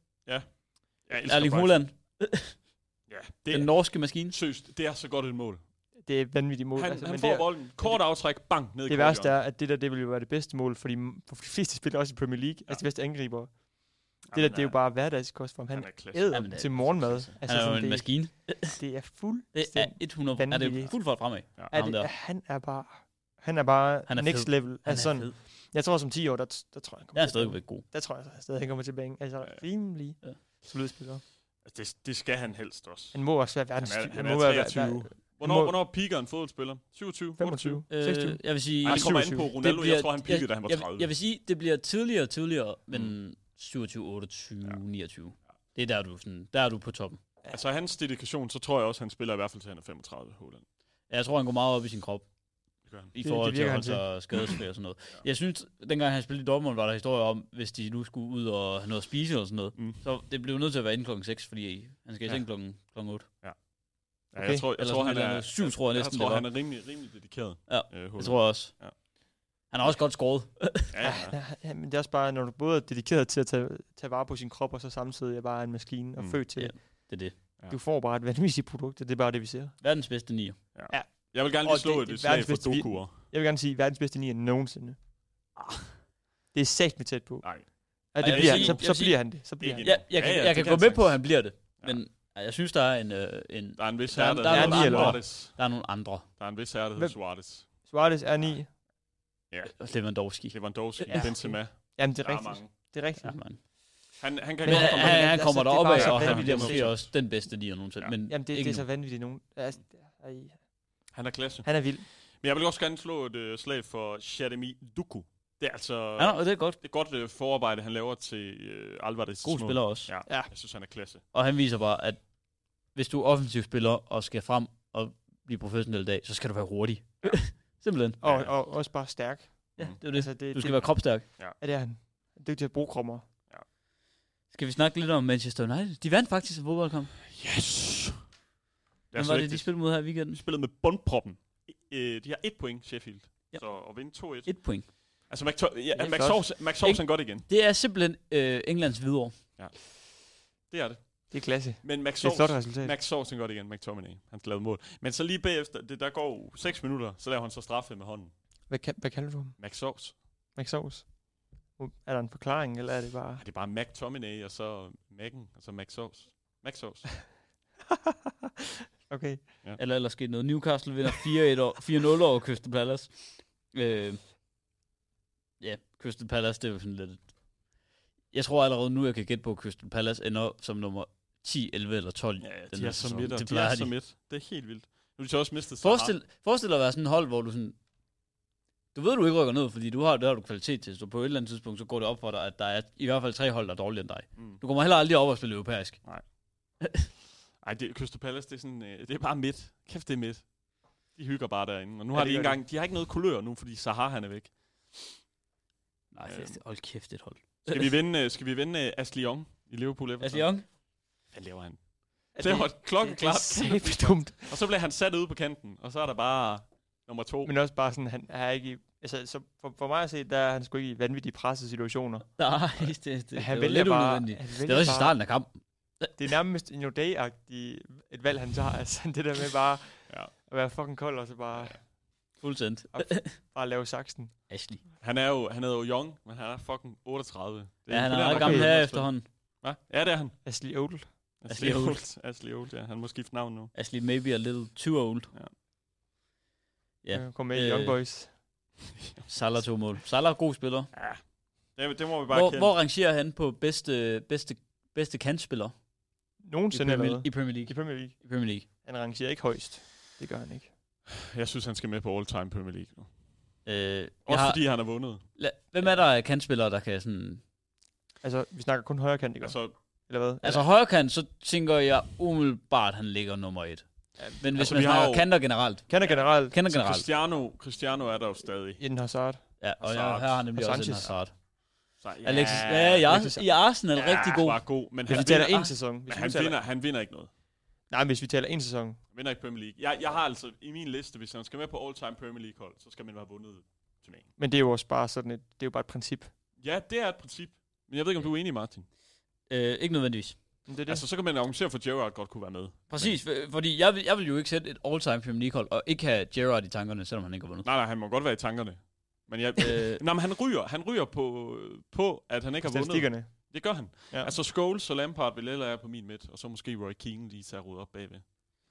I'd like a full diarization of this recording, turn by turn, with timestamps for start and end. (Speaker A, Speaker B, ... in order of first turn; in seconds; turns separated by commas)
Speaker A: 0.3-1.8, Speaker B: 1.2-2.6, Speaker A: 3.1-5.6, Speaker B: 3.5-4.3, Speaker C: 6.0-31.2, Speaker A: 6.8-9.4, Speaker A: 14.3-14.9, Speaker A: 15.7-17.4, Speaker B: 16.3-18.8, Speaker B: 19.5-22.1, Speaker B: 24.1-25.4, Speaker B: 27.1-27.8, Speaker A: 31.6-37.9, Speaker C: 33.1-35.8, Speaker C: 37.4-39.5, Speaker B: 37.9-47.2, Speaker A: 38.8-41.1, Speaker A: 47.5-50.6, Speaker B: 51.1-52.3, Speaker A: 52.9-53.1, Speaker B: 53.1-63.3, Speaker C: 53.2-54.3, Speaker A: 59.8-60.0, Speaker A: 64.2-69.0, Speaker C: 64.4-64.6, Speaker B: 64.8-66.5, Speaker B: 67.7-69.0, Speaker B: 69.7-71.0, Speaker A: 70.9-71.4, Speaker C: 71.0-79.8, Speaker B: 76.5-77.4, Speaker B: 79.8-80.6, Speaker A: 80.7-83.2, Speaker C: 80.9-85.0, Speaker A: 85.6-86.0, Speaker C: 86.5-90.0, Speaker A: 87.4-87.7, Speaker B: 88.2-96.3, Speaker A: 88.2-88.9, Speaker A: 89.6-92.0, Speaker A: 93.8-95.7, Speaker C: 94.4-95.2, Speaker A: 96.4-97.7, Speaker C: 97.0-98.7, Speaker A: 99.5-102.7, Speaker B: 99.8-101.3, Speaker C: 101.1-103.6, Speaker B: 103.2-103.6, Speaker A: 104.2-107.4, Speaker C: 104.6-107.0, Speaker B: 104.7-108.8, Speaker C: 108.3-110.6, Speaker A: 111.1-121.2, Speaker C: 111.6-112.0, Speaker B: 116.2-116.8, Speaker B: 119.4-120.1, Speaker B: 121.3-122.3, Speaker B: 122.9-128.2, Speaker C: 128.2-133.2, Speaker A: 128.2-128.6, Speaker B: 129.8-131.3, Speaker B: 134.5-137.2, Speaker A: 137.3-138.2, Speaker A: 139.1-147.5, Speaker B: 139.1-140.4, Speaker B: 143.5-144.9, Speaker C: 145.9-146.4, Speaker B: 146.8-149.4, Speaker A: 149.6-150.0, Speaker A: 150.7-158.3, Speaker C: 151.3-152.9, Speaker C: 158.7-159.6, Speaker A: 159.6-160.2, Speaker C: 160.6-163.4, Speaker A: 163.4-167.3, Speaker C: 168.1-168.4, Speaker C: 169.1-169.4, Speaker B: 169.8-174.2, Speaker B: 175.6-177.3, Speaker B: 178.3-183.9, Speaker A: 182.4-186.1, Speaker B: 185.8-187.8, Speaker B: 188.9-196.2, Speaker A: 194.4-194.6, Speaker B: 196.8-197.1, Speaker A: 197.6-200.5, Speaker A: 201.1-205.2, Speaker C: 202.1-202.6, Speaker B: 206.1-207.9, Speaker A: 206.3-206.6, Speaker A: 207.6-210.6, Speaker B: 210.2-210.7, Speaker A: 211.3-217.5, Speaker C: 212.3-214.6, Speaker C: 217.4-222.4, Speaker B: 222.4-226.1, Speaker C: 223.3-225.2, Speaker C: 226.1-231.9, Speaker B: 232.4-233.4, Speaker C: 232.9-234.4, Speaker B: 234.5-234.8, Speaker A: 235.0-240.4, Speaker B: 237.9-239.3, Speaker C: 238.3-238.7, Speaker C: 240.4-241.1, Speaker A: 241.4-243.7, Speaker B: 241.5-242.0, Speaker B: 243.7-245.3, Speaker B: 247.0-248.0, Speaker C: 247.1-248.3, Speaker B: 249.3-250.9, Speaker A: 250.9-251.2, Speaker A: 251.8-252.7, Speaker B: 252.3-255.8, Speaker C: 256.4-260.7, Speaker B: 256.7-258.7, Speaker A: 261.2-263.1, Speaker B: 263.6-267.4, Speaker A: 264.3-265.3, Speaker C: 268.2-270.6, Speaker A: 269.4-269.8, Speaker B: 270.4-277.1, Speaker C: 274.2-274.8, Speaker A: 274.6-275.3, Speaker C: 275.9-276.6, Speaker A: 276.0-278.8, Speaker C: 278.8-279.4, Speaker B: 279.6-281.4, Speaker A: 279.8-280.4, Speaker C: 280.6-281.2, Speaker A: 282.0-283.1, Speaker B: 282.2-285.7, Speaker C: 283.1-283.5, Speaker A: 283.9-287.3, Speaker C: 285.1-286.6, Speaker C: 287.9-289.0, Speaker A: 289.1-294.3, Speaker C: 294.4-296.3, Speaker A: 296.6-298.9, Speaker B: 299.5-300.4, Speaker C: 300.7-301.1, Speaker A: 300.9-303.2, Speaker B: 302.9-307.7, Speaker A: 307.6-318.2, Speaker B: 309.6-310.0, Speaker C: 312.6-314.4